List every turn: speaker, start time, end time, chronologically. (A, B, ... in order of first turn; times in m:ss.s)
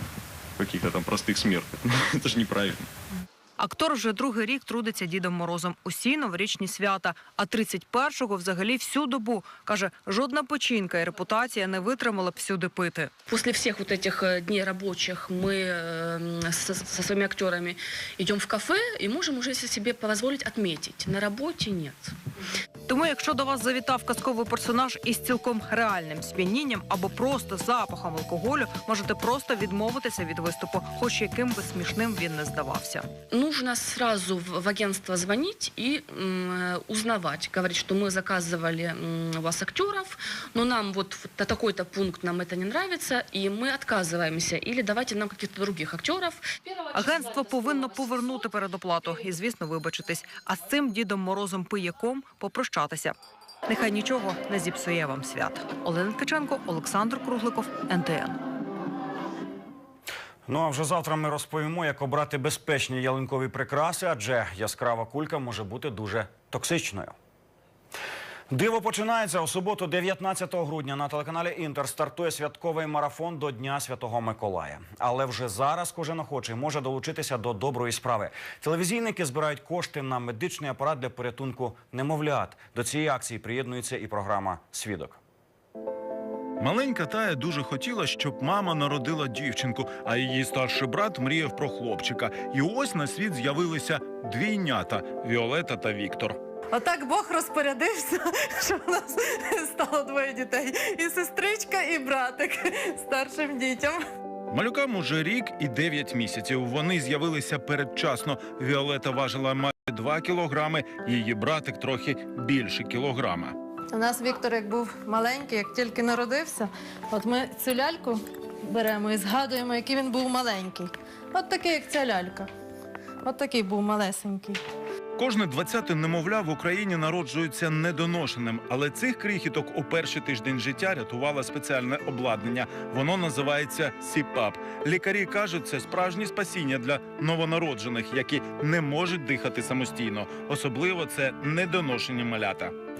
0:00.6-0:02.9 A
0:03.6-0:13.1 B
0:13.3-0:22.2 C
0:22.9-0:33.1 B
0:33.3-0:46.4 C
0:46.9-0:53.2 B
0:53.7-0:58.4 B
1:00.5-1:07.2 D
1:08.5-1:25.2 D
1:26.6-1:36.4 E
1:36.7-1:44.0 F
1:44.5-1:53.5 E
1:53.9-2:02.5 F
2:03.2-2:04.6 F
2:05.2-2:22.7 E